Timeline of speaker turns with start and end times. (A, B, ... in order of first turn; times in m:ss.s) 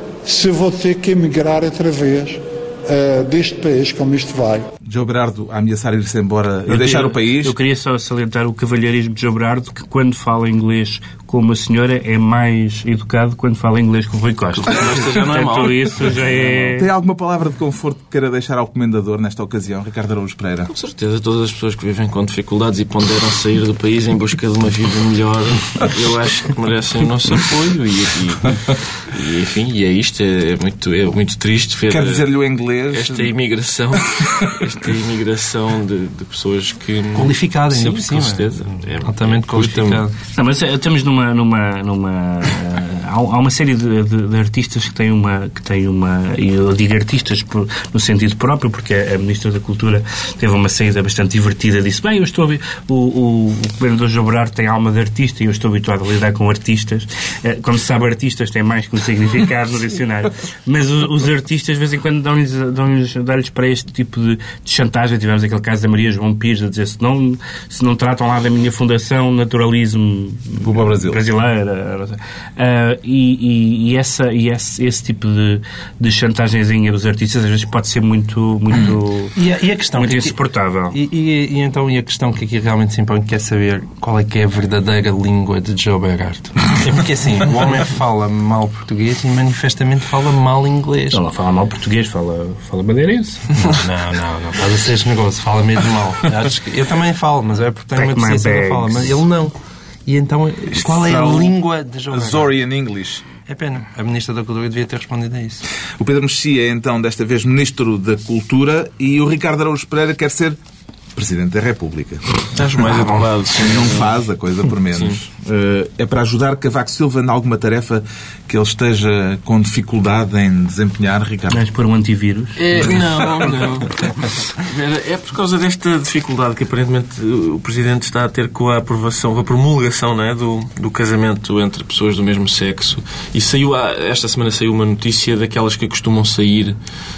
0:00.2-0:04.7 A
0:04.9-0:07.6 B
0:06.7-0:16.9 C
0:14.6-0:16.8 D
0:16.7-0:20.7 B
0:20.7-0:32.3 D
0:31.9-0:33.3 B
0:32.9-0:40.0 D
0:34.2-0:34.6 B
0:37.2-0:40.1 E
0:40.4-1:19.4 C
1:10.6-1:11.2 B
1:19.4-1:20.4 E
1:19.9-1:21.0 C
1:20.9-1:31.2 E
1:31.1-1:33.7 C
1:33.6-1:42.6 E
1:37.9-1:39.2 C
1:40.7-1:41.5 B
1:42.1-1:43.2 B
1:43.5-1:45.6 E
1:46.0-1:50.6 B
1:51.2-1:52.6 B
1:52.5-1:54.2 D
1:53.6-2:01.6 B
1:54.9-1:55.2 D
2:01.5-2:03.0 C
2:02.6-2:04.0 D
2:04.6-2:16.8 D